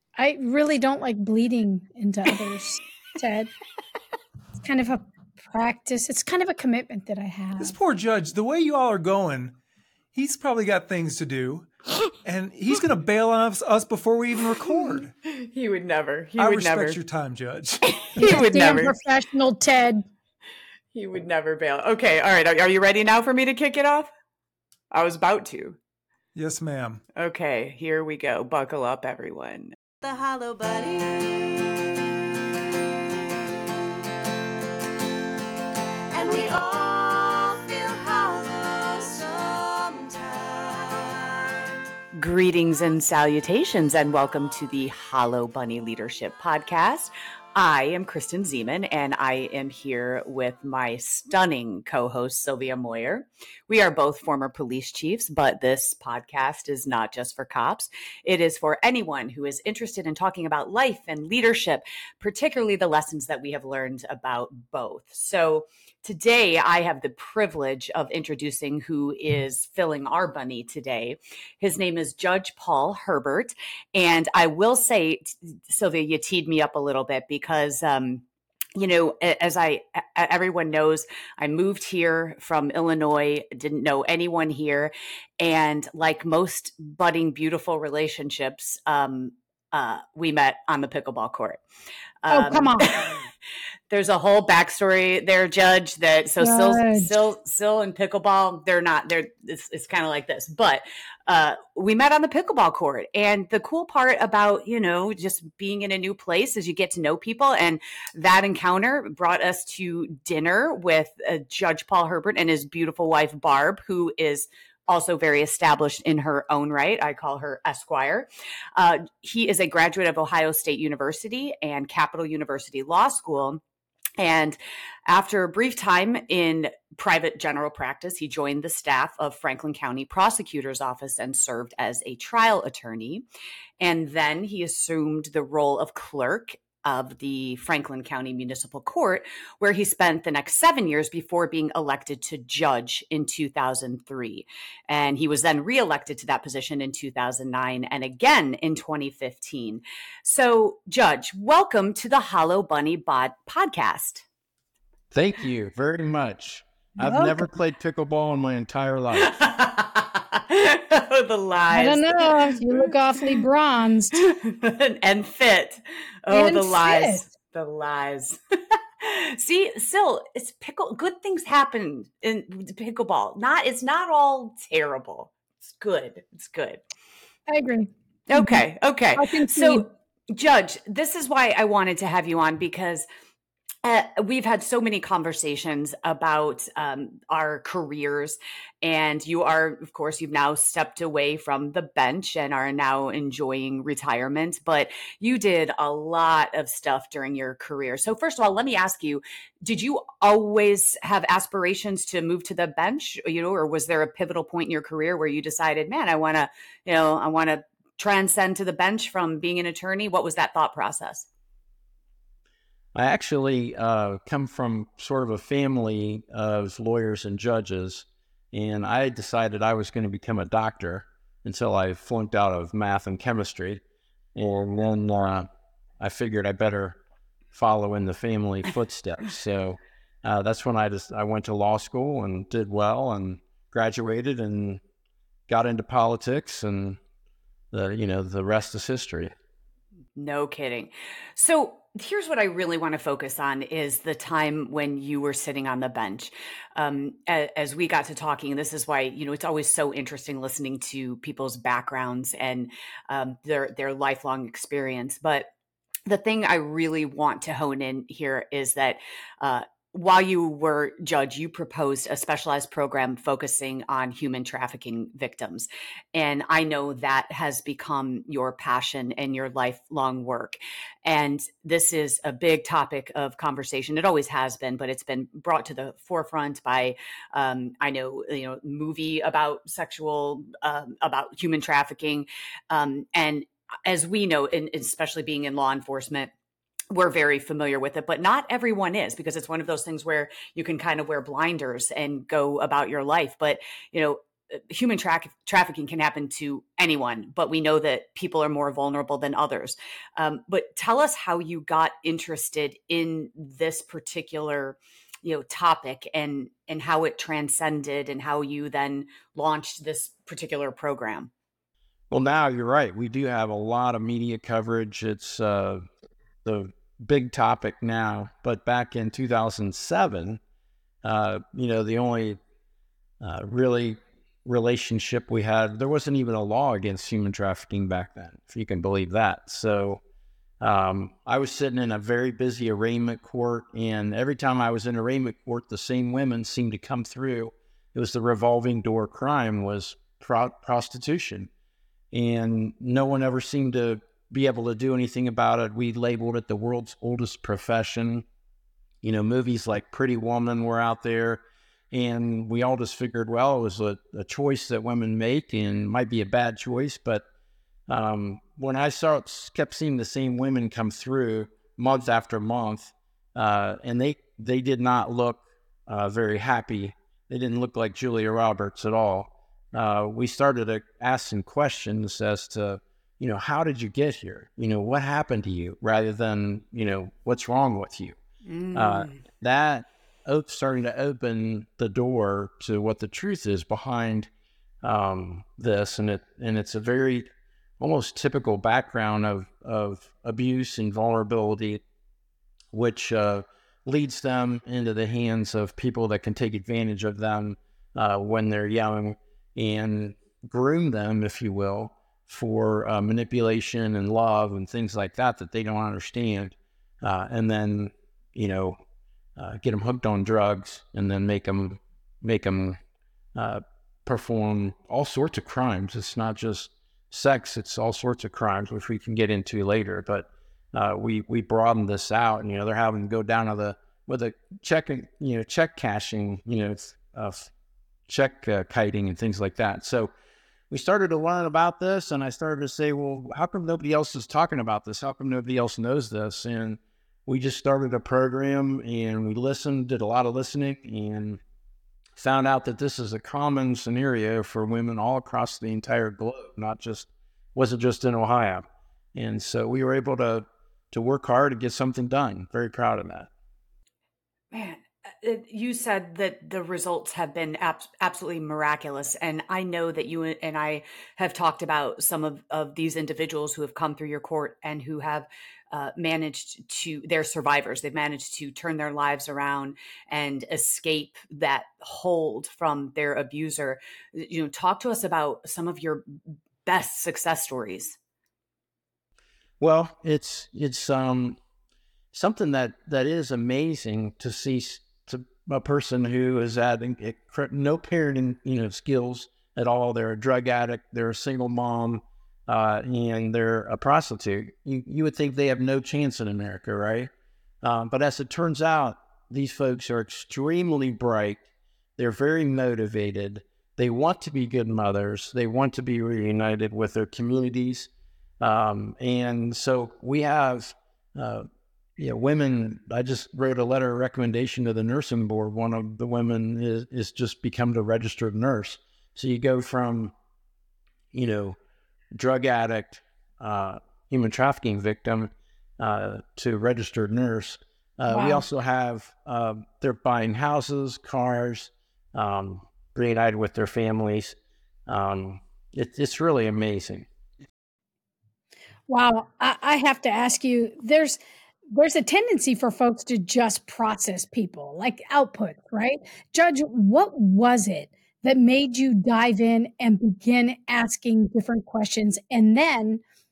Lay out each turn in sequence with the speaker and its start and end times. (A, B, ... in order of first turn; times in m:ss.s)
0:00.2-0:03.5 A
0:04.6-0:07.7 A
0:07.6-0:09.6 B
0:10.1-0:11.7 B
0:12.2-0:15.1 B
0:15.2-0:17.0 C
0:16.4-0:18.7 B
0:17.9-0:18.9 C
0:18.2-0:20.0 A
0:20.9-0:24.1 C
0:24.9-0:25.8 C
0:26.3-0:27.0 B
0:27.2-0:29.7 C
0:30.0-0:32.0 D
0:36.1-0:41.8 D
0:42.1-1:31.6 C
1:32.2-1:33.2 C
1:32.3-1:33.2 A
1:33.9-2:03.6 C
1:36.4-1:37.1 A
2:04.2-2:13.2 C
2:13.8-2:34.2 C
2:35.1-2:39.4 E
2:37.0-2:37.5 A
2:39.2-2:43.3 C
2:41.7-2:44.2 A
2:44.2-2:48.4 C
2:46.3-2:47.2 A
2:49.0-2:56.8 C
2:57.5-2:58.6 A
2:58.3-3:03.0 C
2:59.2-2:59.9 A
3:03.8-3:31.3 C
3:32.9-3:43.8 E
3:44.4-3:45.5 E
3:46.0-3:47.0 E
3:47.5-3:54.8 E
3:55.5-3:57.0 E
3:57.7-3:59.3 E
4:00.2-4:15.5 C
4:16.0-4:46.3 C
4:46.9-5:11.3 C
5:12.1-5:15.8 E
5:16.4-5:20.4 E
5:21.0-5:22.4 E
5:23.2-5:30.0 E
5:30.6-5:41.5 E
5:42.1-5:48.2 E
5:49.0-5:57.2 E
5:57.9-6:18.2 E
6:18.4-6:19.2 C
6:18.7-6:24.3 E
6:24.8-6:27.3 E
6:27.8-6:31.8 E
6:32.7-6:48.8 E
6:49.4-6:52.8 E
6:53.3-7:07.5 E
7:08.1-7:10.1 E
7:10.7-7:21.4 E
7:22.2-7:28.6 E
7:29.1-7:33.3 E
7:34.5-7:56.1 C
7:56.6-7:58.0 C
7:59.6-8:01.4 E
8:02.1-8:17.1 E
8:17.6-8:21.4 E
8:22.0-8:27.9 E
8:28.4-8:31.4 E
8:32.0-8:40.1 E
8:41.1-8:41.6 E
8:42.1-8:54.4 E
8:48.1-8:48.4 A
8:54.9-8:57.0 E
8:58.9-9:01.2 A
9:01.7-9:13.0 A